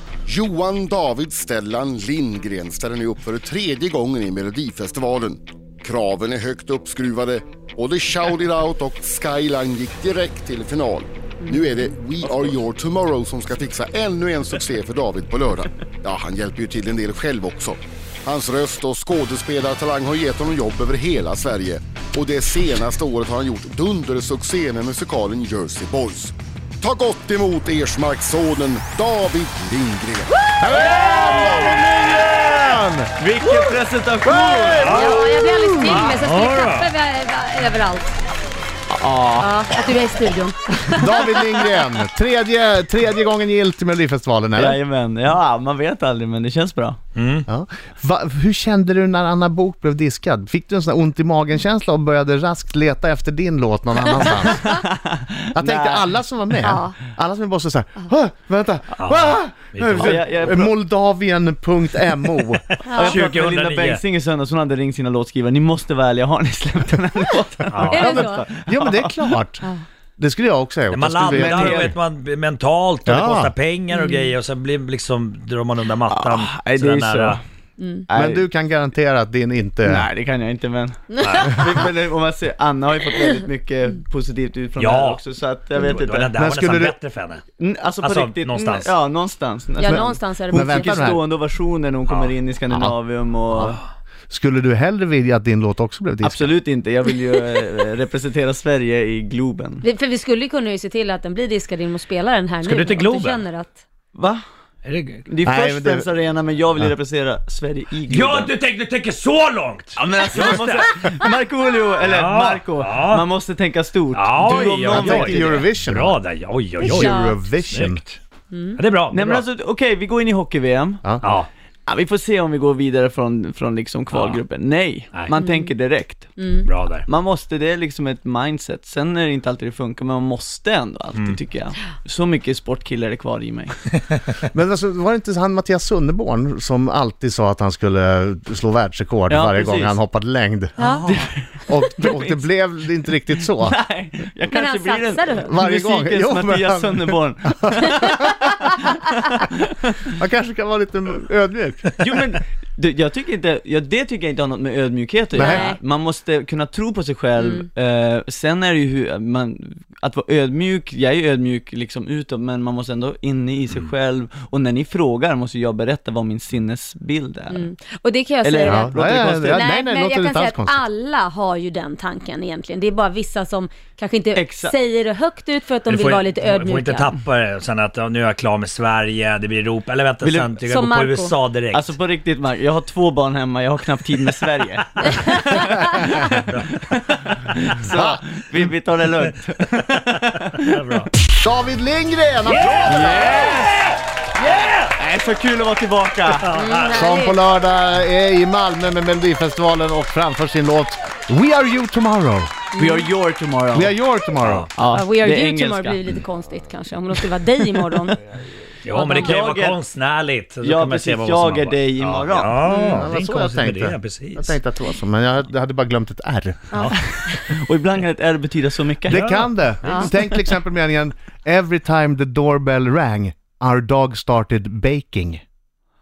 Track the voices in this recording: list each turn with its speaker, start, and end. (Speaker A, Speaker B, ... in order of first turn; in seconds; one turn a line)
Speaker A: 0.2-30.4
Speaker B: 12.2-12.6
Speaker C: 30.6-33.1
Speaker D: 30.7-32.5
Speaker A: 31.2-31.8
Speaker B: 33.2-35.2
Speaker D: 34.6-36.9
Speaker E: 34.9-38.2
Speaker B: 38.9-39.5
Speaker E: 39.4-41.4
Speaker C: 41.0-44.8
Speaker B: 44.5-47.0
Speaker D: 47.1-47.5
Speaker C: 47.5-54.8
Speaker B: 54.4-56.1
Speaker C: 55.5-62.9
Speaker E: 56.6-57.0
Speaker D: 59.0-60.2
Speaker B: 60.0-60.8
Speaker E: 62.9-63.2
Speaker B: 63.0-69.3
Speaker D: 63.0-64.0
Speaker D: 67.7-68.2
Speaker E: 67.9-68.5
Speaker C: 67.9-69.7
Speaker C: 70.2-71.9
Speaker D: 70.9-77.4
Speaker B: 71.2-72.0
Speaker C: 73.1-73.5
Speaker E: 73.9-74.3
Speaker B: 76.1-77.4
Speaker E: 77.8-78.1
Speaker B: 78.1-78.5
Speaker C: 78.1-80.1
Speaker B: 79.9-86.3
Speaker E: 81.1-81.4
Speaker D: 81.2-81.6
Speaker D: 84.8-85.2
Speaker D: 85.8-87.4
Speaker C: 86.3-87.0
Speaker B: 87.6-93.8
Speaker D: 88.0-88.9
Speaker E: 89.8-90.9
Speaker C: 89.9-91.3
Speaker C: 93.5-93.8
Speaker C: 94.3-96.5
Speaker B: 96.2-99.8
Speaker E: 99.8-103.8
Speaker D: 102.6-103.4
Speaker B: 104.1-104.4
Speaker D: 104.8-105.2
Speaker B: 105.3-108.5
Speaker C: 105.4-106.1
Speaker D: 108.1-110.8
Speaker B: 110.0-115.6
Speaker D: 112.0-113.2
Speaker D: 114.1-118.2
Speaker C: 114.4-116.2
Speaker E: 116.8-117.4
Speaker C: 116.8-118.0
Speaker E: 118.5-118.8
Speaker D: 118.8-119.4
Speaker B: 119.1-121.2
Speaker D: 121.2-121.5
Speaker B: 121.9-126.4
Speaker D: 124.1-124.4
Speaker E: 125.3-125.7
Speaker E: 126.4-126.7
Speaker D: 126.6-127.1
Speaker B: 127.1-133.8
Speaker C: 134.5-141.1
Speaker B: 139.3-140.0
Speaker E: 140.8-141.1
Speaker B: 140.8-150.1
Speaker C: 141.7-143.8
Speaker E: 144.4-145.5
Speaker C: 145.4-148.2
Speaker C: 150.1-152.0
Speaker B: 152.0-167.7
Speaker E: 155.3-155.8
Speaker C: 155.4-155.7
Speaker E: 157.4-157.7
Speaker E: 167.5-168.9
Speaker B: 168.4-169.7
Speaker C: 168.7-170.8
Speaker E: 169.5-177.2
Speaker B: 174.3-174.8
Speaker D: 175.9-181.9
Speaker B: 180.2-180.6
Speaker E: 180.7-181.3
Speaker B: 181.7-190.8
Speaker D: 186.2-186.7
Speaker C: 187.9-188.2
Speaker D: 190.6-191.1
Speaker C: 191.3-193.6
Speaker D: 192.4-194.9
Speaker B: 192.8-193.7
Speaker B: 194.8-196.5
Speaker D: 196.3-197.1
Speaker E: 196.5-197.4
Speaker C: 196.9-202.5
Speaker E: 202.7-203.1
Speaker B: 202.8-204.0
Speaker C: 203.7-204.7
Speaker D: 204.4-204.7
Speaker B: 204.8-206.0
Speaker E: 204.8-208.2
Speaker D: 208.8-214.6
Speaker E: 208.9-209.4
Speaker B: 209.1-209.8
Speaker B: 210.6-212.6
Speaker E: 212.7-213.1
Speaker C: 212.7-216.8
Speaker B: 217.0-219.3
Speaker C: 219.0-225.4
Speaker D: 219.1-220.1
Speaker E: 219.8-220.3